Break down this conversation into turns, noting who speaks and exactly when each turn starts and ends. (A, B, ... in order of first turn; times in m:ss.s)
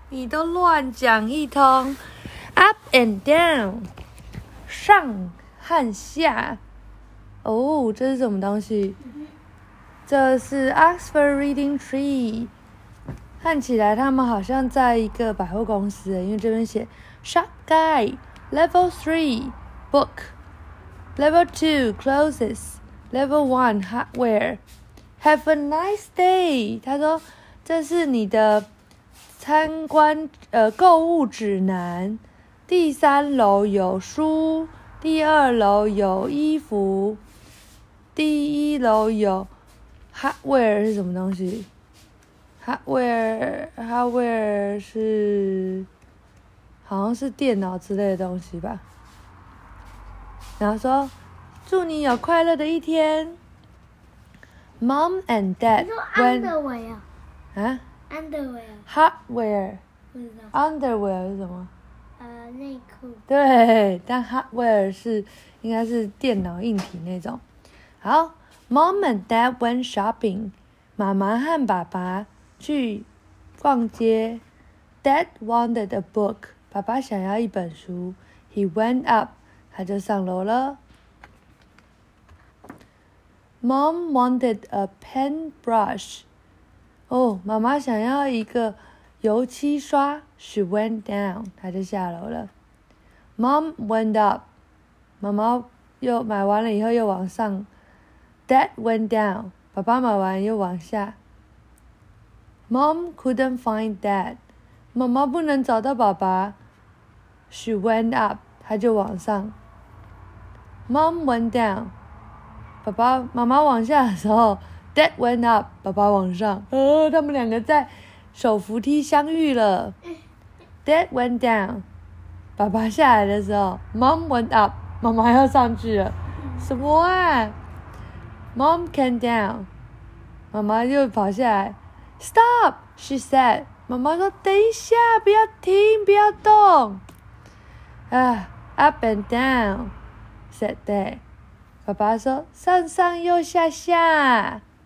0:00.1-0:02.0 A
0:02.5-0:03.9 A
0:04.7-0:06.6 A
0:07.4-0:09.0 A
0:10.1-0:12.5 A
0:13.4-0:20.3 A
0:21.2-0:24.6 A
0:25.2-0:28.7 A
0:29.4-0:37.2 A
0:38.1-0:39.5 A
0:40.1-0:41.7 A
0:42.6-0:45.9 A
0:46.8-0:48.8 A
0:50.6-0:51.1 A
0:51.6-0:53.4 A
0:54.8-0:56.5 A
0:55.8-0:57.0 B
0:57.5-0:57.8 A
0:58.1-0:58.9 B
0:58.9-0:59.8 A
1:00.1-1:00.5 B
1:00.5-1:01.7 A
1:02.2-1:03.2 B
1:03.3-1:07.4 A
1:08.0-1:13.1 A
1:13.6-1:14.4 A
1:15.0-1:20.8 A
1:23.6-1:26.2 A
1:27.1-1:32.5 A
1:33.4-1:34.4 A
1:35.2-1:37.7 A
1:38.5-1:41.2 A
1:42.7-1:44.4 A
1:44.9-1:46.6 A
1:47.5-1:49.5 A
1:50.9-1:51.9 A
1:52.8-1:59.9 A
2:00.8-2:01.8 A
2:02.6-2:07.5 A
2:08.5-2:09.7 A
2:10.5-2:17.0 A
2:18.1-2:19.9 A
2:20.5-2:21.2 A
2:21.8-2:24.6 A